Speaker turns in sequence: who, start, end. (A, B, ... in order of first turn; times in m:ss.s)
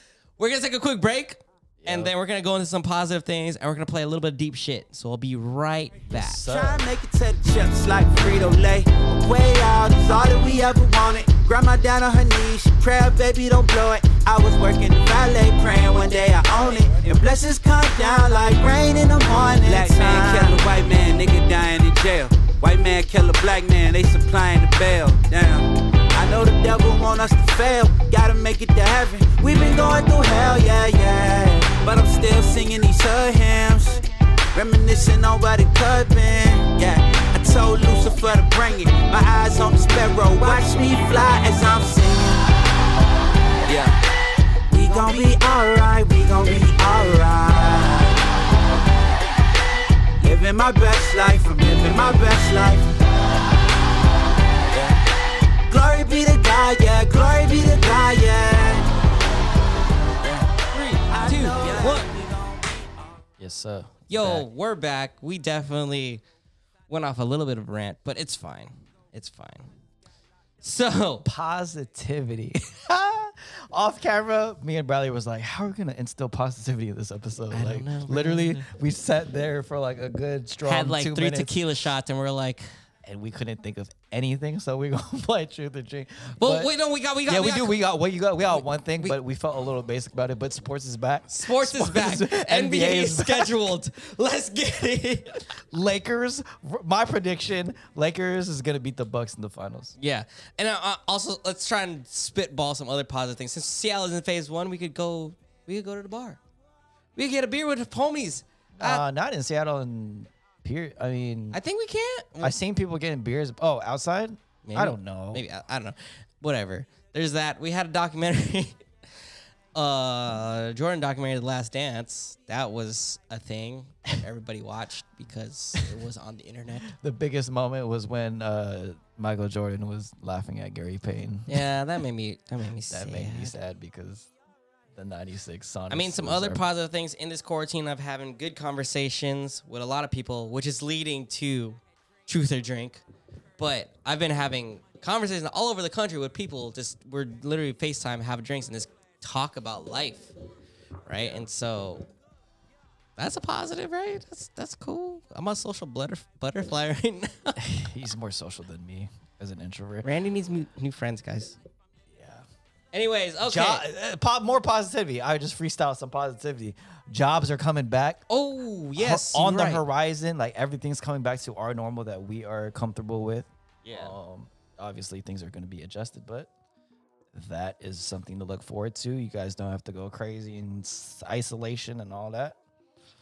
0:00.4-0:06.5 A
0:01.8-0:02.1 B
0:06.1-0:06.8 B
0:06.4-0:34.0 C
0:16.5-0:17.0 B
0:19.7-0:20.3 A
0:34.5-0:42.5 C
0:43.6-0:44.0 C
0:44.7-0:48.3 C
0:50.2-0:53.0 C
0:54.6-0:55.0 C
0:55.7-0:58.9 C
1:00.2-1:00.5 C
1:00.7-1:02.1 A
1:01.1-1:02.7 C
1:03.4-1:04.5 B
1:04.1-1:06.2 A
1:06.9-1:09.7 A
1:10.6-1:11.3 A
1:11.2-1:21.6 B
1:17.5-1:18.7 A
1:20.6-1:22.7 A
1:23.0-1:26.7 B
1:26.4-1:27.8 A
1:27.3-1:33.7 B
1:31.3-1:35.4 A
1:35.5-1:40.0 B
1:40.0-1:46.4 A
1:47.2-1:49.0 A
1:48.8-1:51.6 B
1:51.5-1:52.5 A
1:52.4-1:55.4 B
1:54.6-1:58.9 A
1:59.7-2:06.9 A
2:06.9-2:11.7 B
2:11.5-2:13.6 A
2:12.9-2:14.3 B
2:14.9-2:16.6 B
2:15.9-2:23.0 A
2:23.6-2:30.3 A
2:31.0-2:32.1 A
2:31.2-2:31.4 B
2:33.2-2:37.6 A
2:37.6-2:40.1 B
2:40.0-2:41.6 A
2:42.1-2:42.4 B
2:42.9-2:43.8 A
2:43.4-2:48.2 B
2:48.3-2:49.8 A
2:49.0-2:56.5 B
2:53.8-2:54.2 A
2:57.3-3:02.6 B